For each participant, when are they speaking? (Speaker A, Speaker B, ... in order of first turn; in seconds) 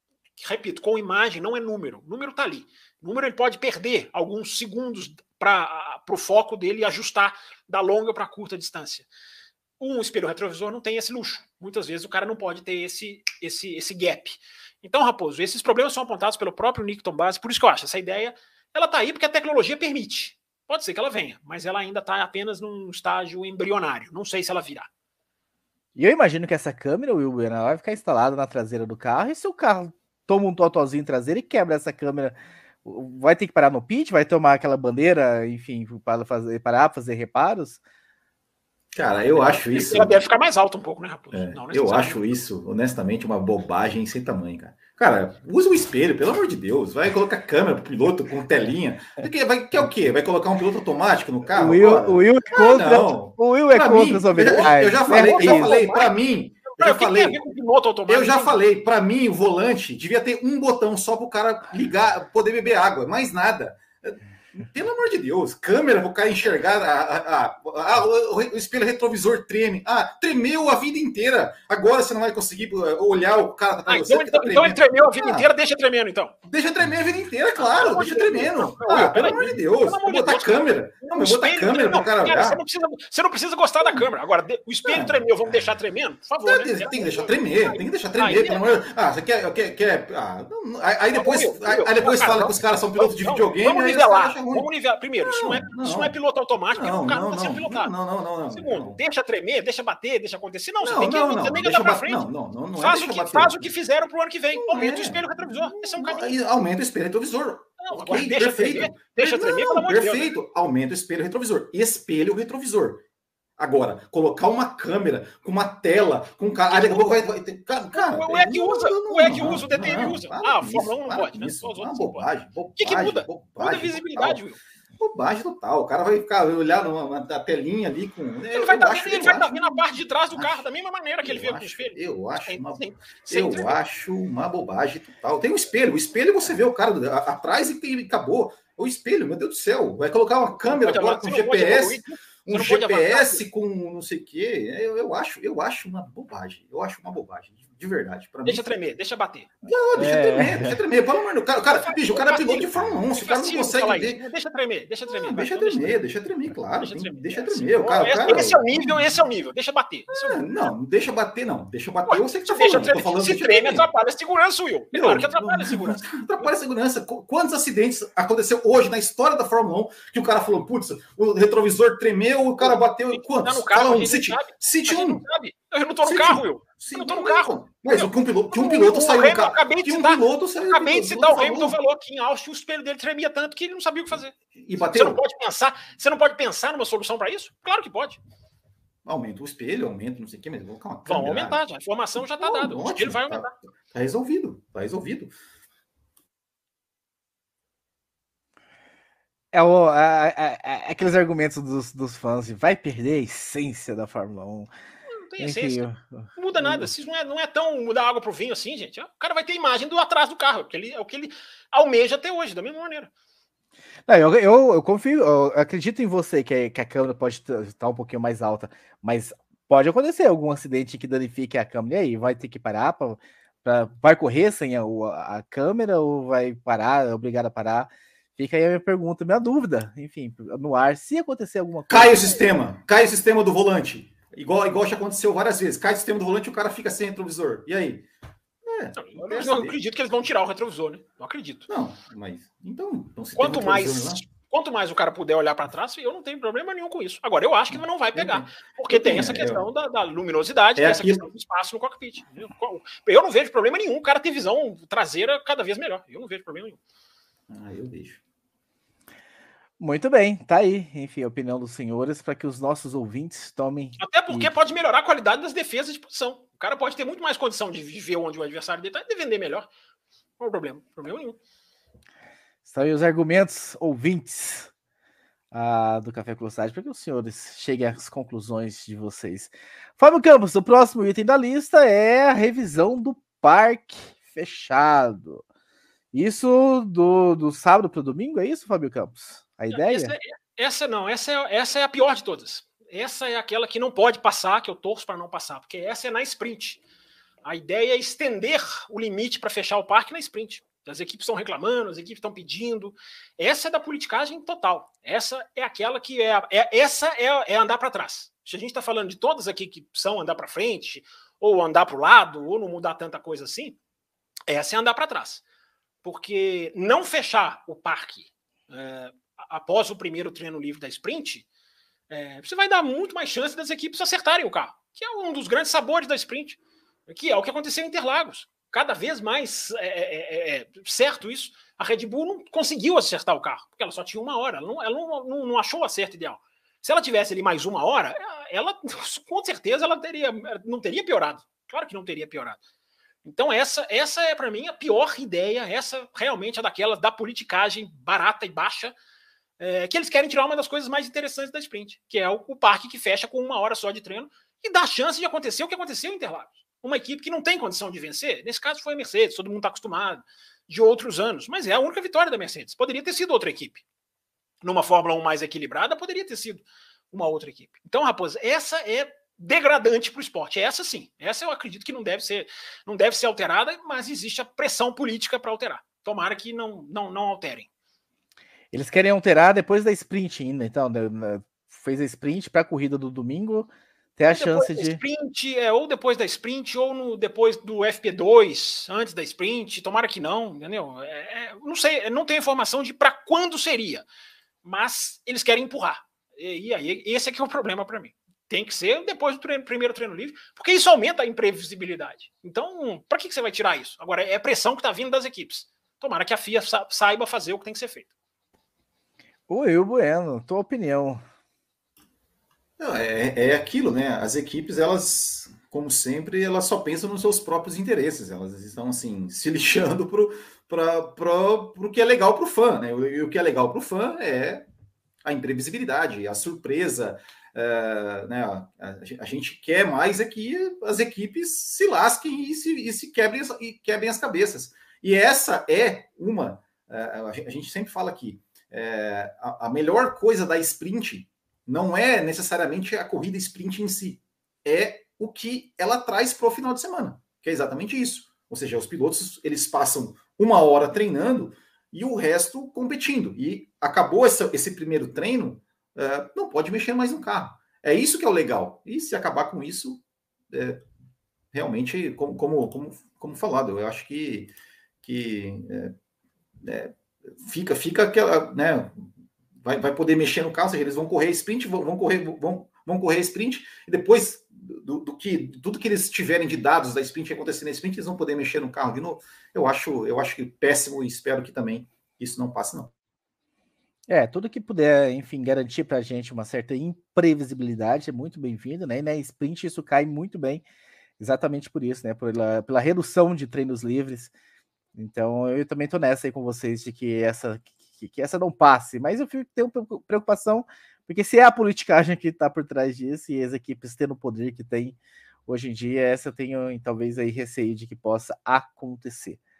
Speaker A: 0.4-9.1, 9.8-24.9, 39.3-42.2, 54.4-56.1, 56.7-58.5, 73.9-76.3, 77.6-88.7, 91.1-97.9, 98.5-102.2, 102.8-106.3, 107.8-110.3, 116.7-117.2, 117.9-122.2, 122.8-124.6, 128.5-133.8, 140.6-143.4, 148.4-149.5, 151.7-156.0, 156.8-160.4, 162.1-166.4, 172.6-188.2, 191.1-193.5, 205.1-205.8, 206.3-213.1, 239.0-241.7, 243.3-256.8, 264.0-269.7, 270.4-271.4, 289.7-296.8, 297.4-313.8, 314.5-315.4, 316.0-321.4, 322.1-342.6, 343.2-348.9, 349.6-363.8, 364.6-377.7, 384.3-394.0, 394.6-408.1
Speaker B: 25.9-37.8, 51.5-55.8, 149.9-150.8, 199.5-204.7, 205.4-206.9, 214.1-232.4, 259.8-264.5, 272.6-274.7, 275.5-285.4, 286.1-290.1, 378.7-385.0, 409.5-411.2, 484.1-490.6, 491.2-494.3, 494.9-504.9, 505.5-509.4
Speaker C: 38.9-40.2, 41.3-57.4, 58.1-75.5, 76.4-82.6, 83.8-84.1, 84.8-85.7, 86.4-94.7, 95.2-96.1, 96.7-99.0, 100.8-103.7, 104.6-113.0, 113.6-124.4, 125.0-130.7, 131.2-148.7, 149.6-154.2, 155.1-159.2, 160.1-163.9, 164.9-175.2, 176.0-181.8, 184.5-185.2, 189.0-191.6, 192.2-195.3, 231.9-238.1, 238.6-239.8, 241.7-244.2, 247.7-249.6, 250.8-251.2, 257.5-258.2, 412.8-424.7, 425.2-460.8, 461.5-465.9, 466.6-469.1, 469.6-482.9